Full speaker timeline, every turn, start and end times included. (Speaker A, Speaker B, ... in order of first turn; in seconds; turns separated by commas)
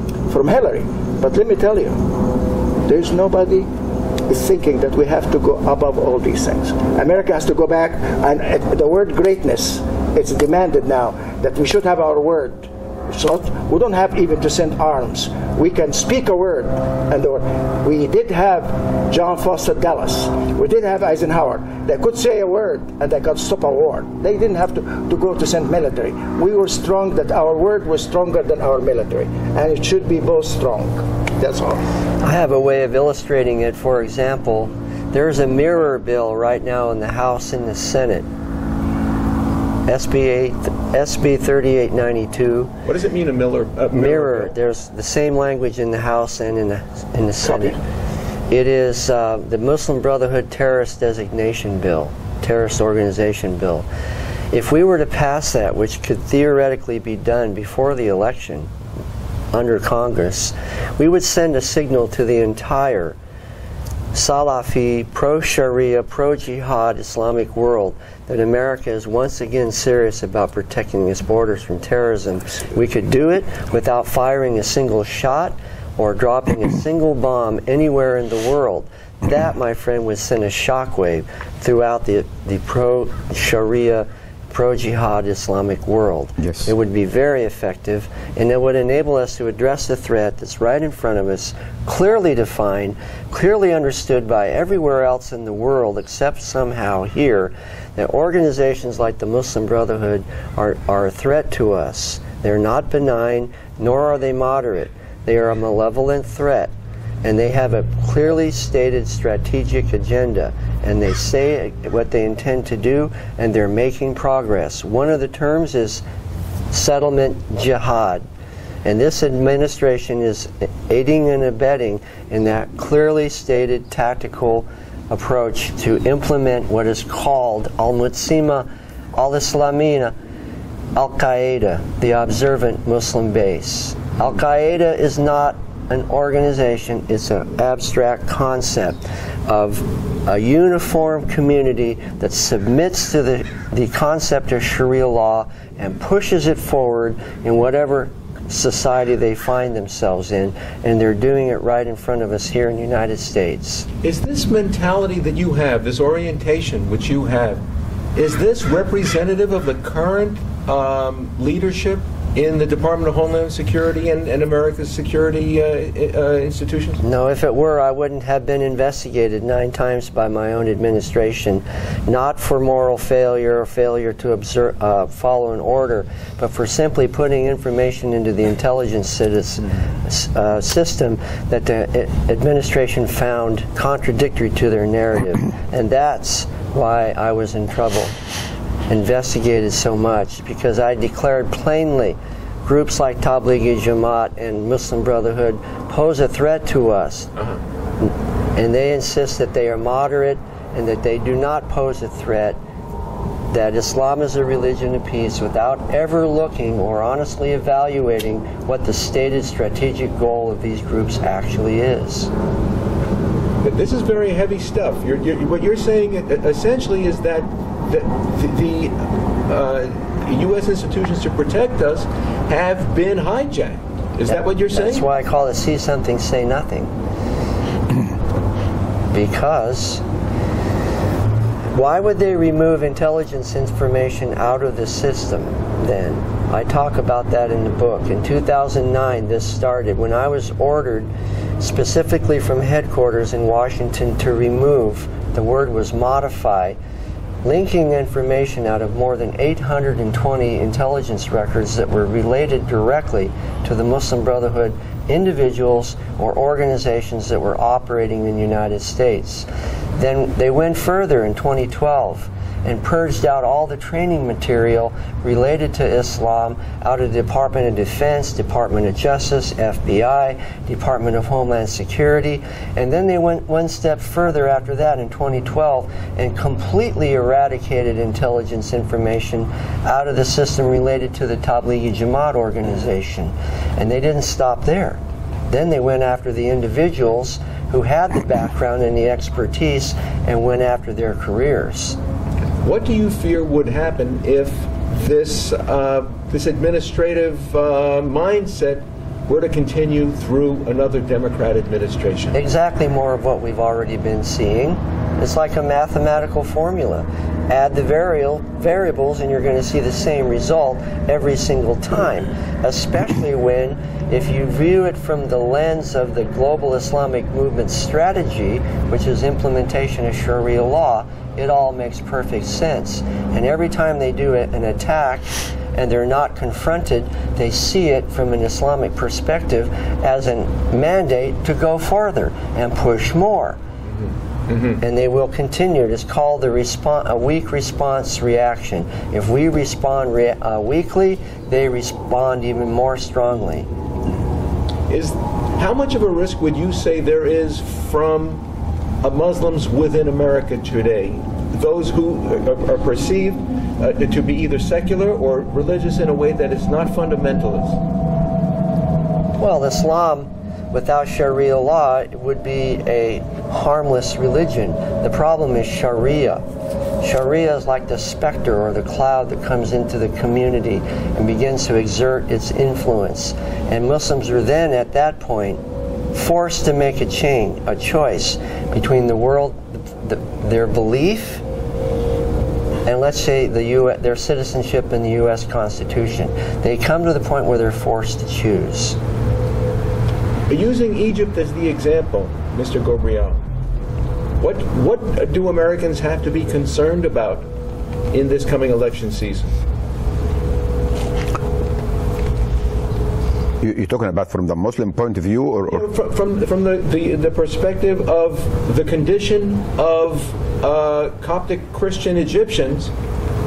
Speaker A: 0.3-2.0, Speaker A: 2.9-3.7, Speaker A: 4.3-31.8, Speaker B: 32.2-38.3, Speaker B: 39.9-42.7, Speaker C: 42.9-44.5, Speaker B: 43.9-47.8, Speaker A: 47.5-47.8, Speaker B: 48.5-53.9, Speaker B: 54.5-58.7, Speaker B: 59.5-63.2, Speaker B: 64.1-106.7, Speaker D: 86.4-86.7, Speaker B: 107.2-116.0, Speaker B: 116.7-118.3, Speaker B: 118.8-130.2, Speaker B: 131.0-153.9, Speaker C: 154.0-157.6, Speaker C: 158.2-167.0, Speaker B: 167.0-188.2, Speaker B: 188.9-197.3, Speaker C: 197.4-197.6, Speaker B: 198.0-202.6, Speaker B: 203.5-212.3, Speaker C: 213.6-225.1, Speaker B: 224.3-226.9, Speaker B: 229.1-230.0, Speaker B: 231.7-246.8, Speaker B: 247.4-292.0, Speaker C: 292.6-302.4, Speaker B: 302.3-333.6, Speaker C: 333.9-334.8, Speaker B: 334.8-343.7, Speaker C: 344.9-348.4, Speaker C: 349.0-357.8, Speaker B: 359.4-366.4, Speaker B: 367.0-381.4, Speaker B: 382.9-389.0, Speaker C: 390.5-393.4, Speaker C: 394.4-397.5, Speaker C: 398.1-399.5, Speaker D: 403.6-405.9, Speaker C: 405.7-412.9